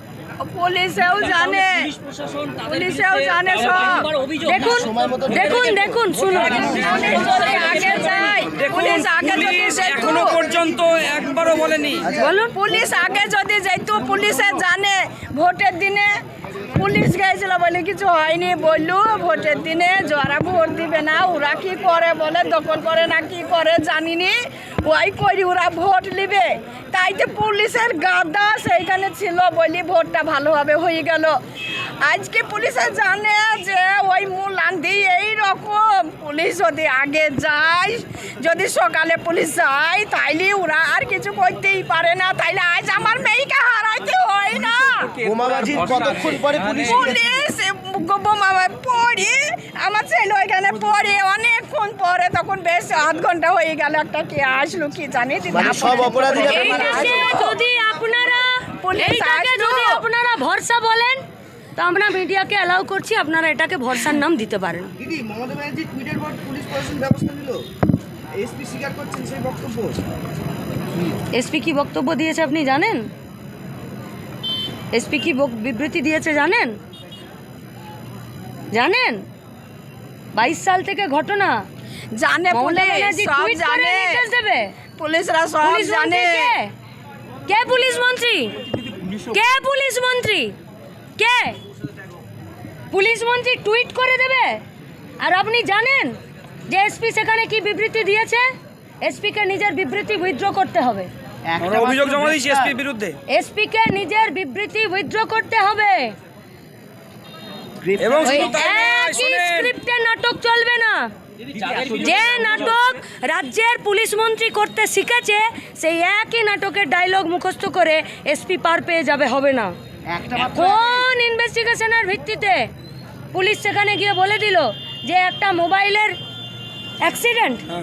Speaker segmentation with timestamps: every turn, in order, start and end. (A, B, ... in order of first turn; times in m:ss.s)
0:00.4-0:01.9 A
0:01.1-0:08.5 B
0:02.6-0:04.1 A
0:04.5-0:08.4 C
0:04.7-0:05.6 D
0:06.6-0:10.4 A
0:08.5-0:12.1 E
0:12.1-0:12.6 C
0:12.5-0:31.4 A
0:32.0-0:45.2 A
0:45.2-0:47.3 D
0:45.7-0:46.3 B
0:46.7-0:57.6 A
0:55.5-0:57.0 D
0:56.3-1:01.2 C
0:58.8-1:00.0 A
1:01.8-1:05.0 C
1:05.0-1:07.7 D
1:08.4-1:10.0 D
1:11.3-1:13.1 C
1:14.9-1:16.8 C
1:18.7-1:19.2 C
1:20.3-1:21.6 C
1:22.1-1:24.2 A
1:22.5-1:24.8 C
1:25.0-1:26.6 A
1:25.6-1:26.7 C
1:27.5-1:28.6 C
1:29.2-1:30.6 C
1:31.2-1:31.6 C
1:32.9-1:34.6 C
1:35.2-1:38.4 C
1:39.0-1:41.1 C
1:41.5-1:42.7 D
1:41.6-1:43.2 E
1:43.3-1:46.2 C
1:48.0-1:49.7 E
1:48.2-1:51.1 C
1:51.4-1:52.8 B
1:51.9-1:59.7 C
2:00.3-2:02.7 C
2:00.5-2:00.8 D
2:03.3-2:06.2 C
2:07.0-2:07.7 C